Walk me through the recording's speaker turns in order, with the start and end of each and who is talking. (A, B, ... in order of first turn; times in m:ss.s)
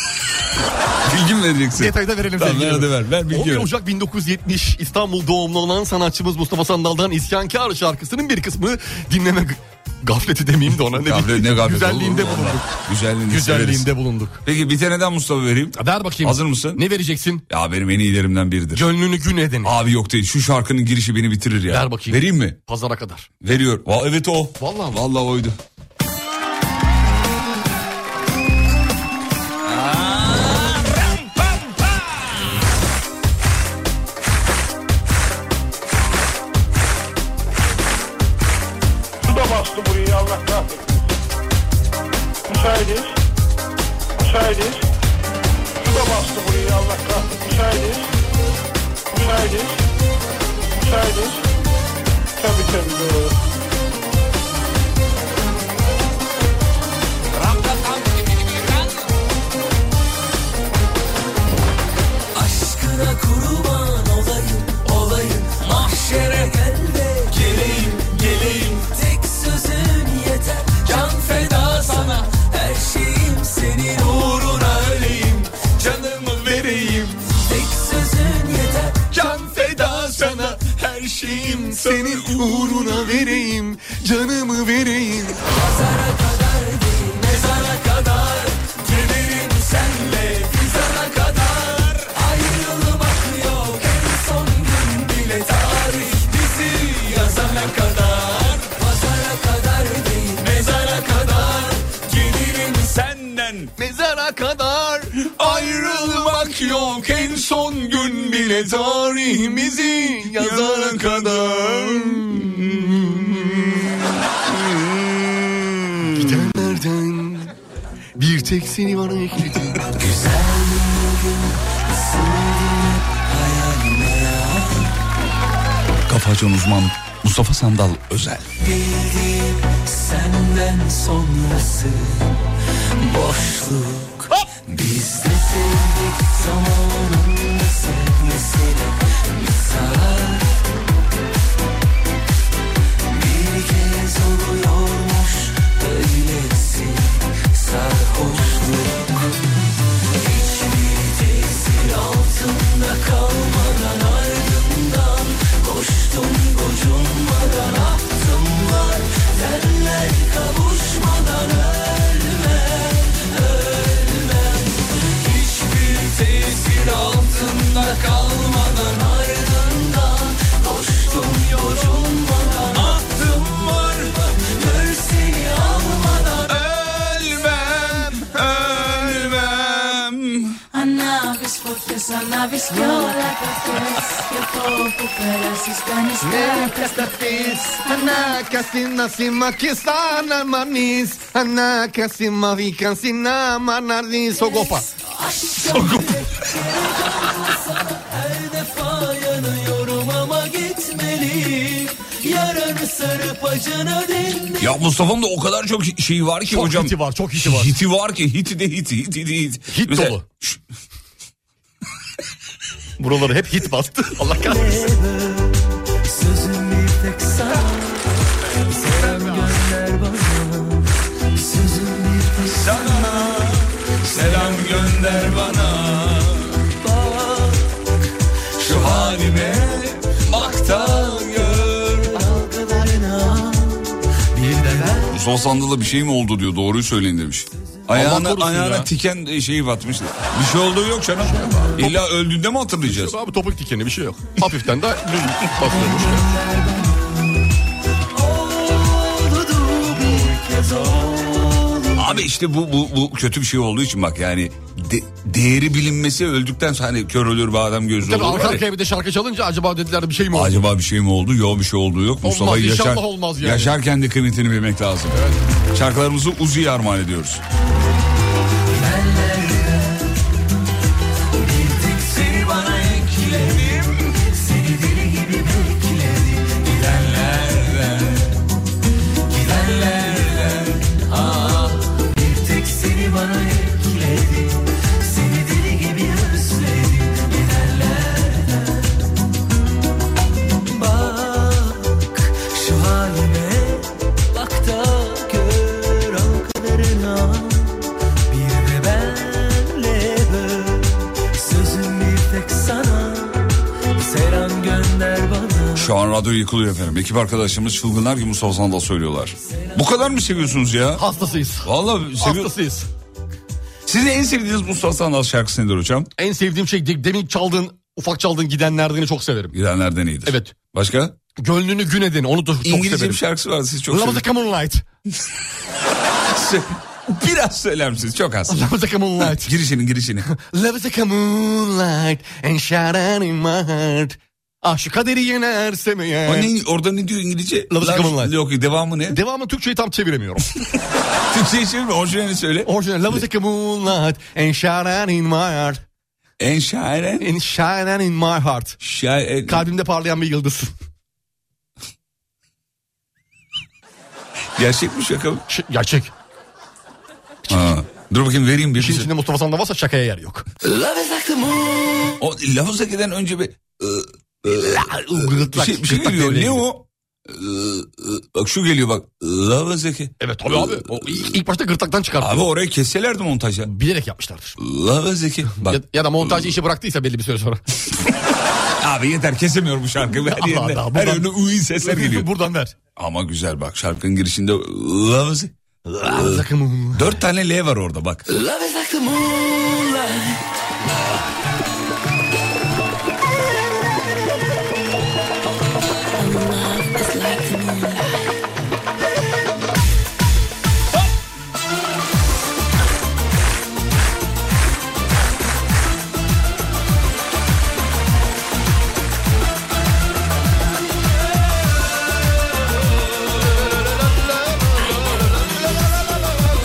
0:01.0-0:03.7 A
0:01.7-0:14.4 B
0:10.8-0:13.9 A
0:14.4-0:16.8 A
0:15.8-0:17.4 B
0:17.5-0:18.9 A
0:18.7-0:19.7 B
0:19.6-0:22.6 A
0:21.7-0:23.3 B
0:23.4-0:25.6 A
0:24.6-0:25.0 B
0:29.6-0:32.1 A
0:39.2-0:41.1 C
0:42.5-0:43.2 C
0:44.2-0:44.8 C
0:45.8-0:48.1 C
0:49.1-0:49.8 C
0:50.7-0:51.4 C
0:52.4-0:53.3 C
0:57.4-0:58.0 A
1:02.3-1:19.1 D
1:19.2-1:25.4 B
1:19.2-1:23.4 A
1:25.4-1:42.9 D
1:42.8-1:43.7 A
1:43.8-1:53.9 B
1:45.4-1:49.0 A
1:50.1-1:53.7 A
1:54.6-1:55.4 A
1:55.9-1:56.7 A
1:56.1-1:57.5 B
1:58.2-1:59.9 B
2:00.0-2:04.9 D
2:06.1-2:08.5 A
2:08.6-2:20.6 D
2:23.1-2:29.4 D
2:30.1-2:56.6 D
2:52.8-2:53.1 A
2:56.5-3:00.6 A
3:00.7-3:07.4 E
3:06.2-3:14.9 B
3:14.4-3:24.8 D
3:15.7-3:16.1 A
3:24.6-3:30.6 A
3:26.5-3:27.8 B
3:29.7-3:30.2 B
3:33.0-3:34.9 B
3:34.4-3:43.5 D
3:42.6-3:46.6 A
3:44.1-3:44.8 D
3:46.8-3:47.7 D
3:48.6-3:52.1 A
3:48.6-3:55.2 D
3:55.1-4:03.2 A
3:57.9-3:58.9 B
4:02.8-4:06.3 B
4:05.5-4:07.4 D
4:08.1-4:12.3 D
4:12.0-4:18.6 A
4:18.0-4:20.6 B
4:20.3-4:25.2 A
4:22.2-4:23.8 B
4:25.1-4:25.4 B
4:25.7-4:27.4 A
4:28.7-4:30.2 D
4:31.3-4:38.3 D
4:39.3-4:49.1 D
4:50.6-5:05.9 D
5:05.8-5:11.0 A
5:11.0-5:12.9 B
5:11.6-5:12.5 A
5:13.8-5:16.1 A
5:16.2-5:19.5 B
5:19.5-5:21.2 A
5:20.2-5:20.6 B
5:21.4-5:23.2 B
5:22.6-5:24.2 A
5:23.9-5:24.8 B
5:26.3-5:28.6 A
5:28.5-5:29.5 B
5:29.2-5:30.3 A
5:30.2-5:36.5 B
5:36.2-5:39.2 A
5:37.7-5:38.3 B
5:39.1-5:40.4 B
5:41.3-5:43.2 A
5:42.6-5:45.8 B
5:46.4-5:47.3 A
5:47.2-5:48.8 B
5:48.8-5:49.6 A
5:49.5-5:50.7 B
5:54.6-5:55.4 A
5:55.5-5:56.1 B
5:57.5-5:59.1 A
5:58.8-6:00.4 B
6:00.6-6:02.1 D
6:02.2-6:11.3 A
6:04.4-6:06.6 B
6:10.2-6:12.4 B
6:12.2-6:13.7 A
6:13.6-6:14.6 B
6:14.6-6:16.5 A
6:15.6-6:17.6 B
6:18.8-6:22.3 A
6:20.1-6:22.8 B
6:23.0-6:25.5 A
6:25.8-6:27.2 B
6:26.0-6:28.2 A
6:28.3-6:30.4 D
6:54.9-6:55.7 D